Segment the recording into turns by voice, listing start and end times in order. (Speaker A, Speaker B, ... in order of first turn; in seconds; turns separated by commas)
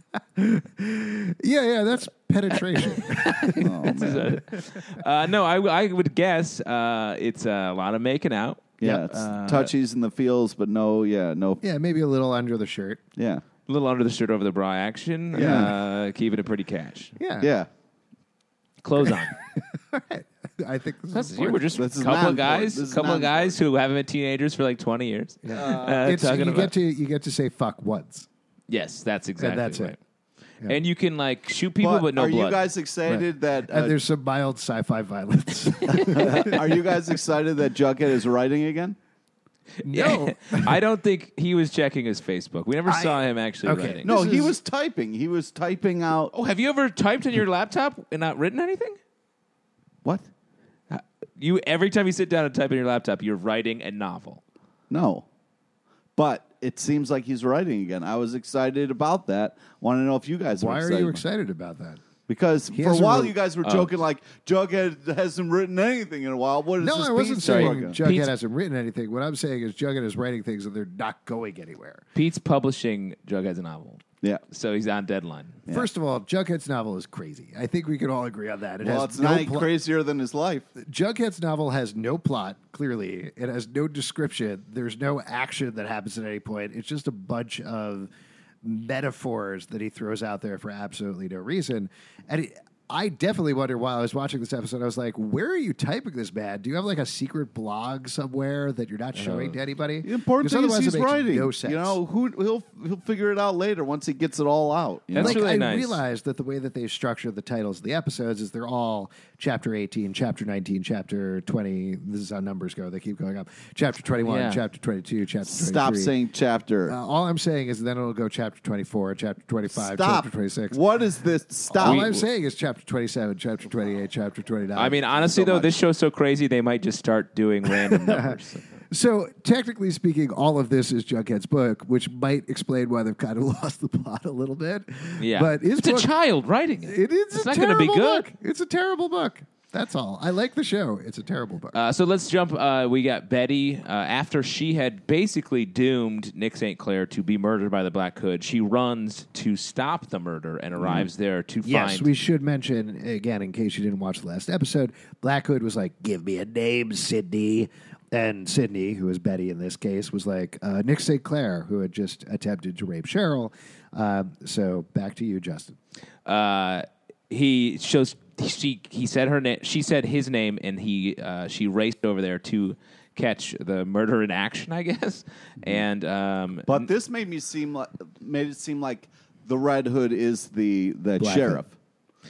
Speaker A: 0.3-4.9, Speaker B: 2.5-9.7, Speaker C: 3.6-4.4, Speaker C: 8.8-11.6, Speaker A: 8.8-9.3, Speaker A: 11.6-13.0, Speaker C: 13.2-13.4, Speaker B: 13.7-17.1, Speaker C: 15.3-15.7, Speaker A: 17.2-17.5, Speaker C: 17.4-17.7, Speaker B: 18.8-19.4, Speaker A: 19.1-21.7, Speaker B: 21.1-26.7, Speaker C: 21.7-23.6, Speaker A: 25.4-28.3, Speaker C: 25.5-26.1, Speaker B: 28.7-30.0, Speaker A: 29.4-29.9, Speaker B: 30.6-32.6, Speaker C: 31.8-34.0, Speaker A: 33.1-36.6, Speaker C: 35.9-39.0, Speaker B: 35.9-36.5, Speaker B: 39.8-44.1, Speaker A: 39.9-40.8, Speaker A: 42.9-44.5, Speaker C: 44.0-46.3, Speaker B: 46.3-49.0, Speaker B: 50.9-54.4, Speaker C: 54.9-55.2, Speaker C: 56.2-61.2, Speaker A: 60.5-62.0, Speaker C: 62.3-68.0, Speaker A: 62.7-63.3, Speaker B: 63.6-63.9, Speaker A: 66.8-72.0, Speaker B: 67.4-68.3, Speaker B: 72.1-75.6, Speaker A: 75.7-79.7, Speaker C: 78.8-80.7, Speaker A: 80.8-88.1, Speaker A: 88.6-102.0, Speaker B: 99.1-99.5, Speaker C: 100.0-105.4, Speaker B: 105.1-106.0, Speaker A: 105.2-116.1, Speaker B: 114.2-114.6, Speaker C: 115.4-116.9, Speaker A: 116.9-120.8, Speaker C: 119.7-122.2, Speaker A: 121.7-125.7, Speaker B: 121.8-122.2, Speaker B: 124.7-128.7, Speaker A: 127.7-128.4, Speaker A: 128.9-136.1, Speaker B: 135.2-138.3, Speaker A: 136.8-141.7, Speaker B: 141.7-152.1, Speaker C: 150.8-151.1, Speaker A: 151.6-165.8, Speaker B: 166.2-176.9, Speaker C: 176.7-181.7, Speaker A: 181.2-181.6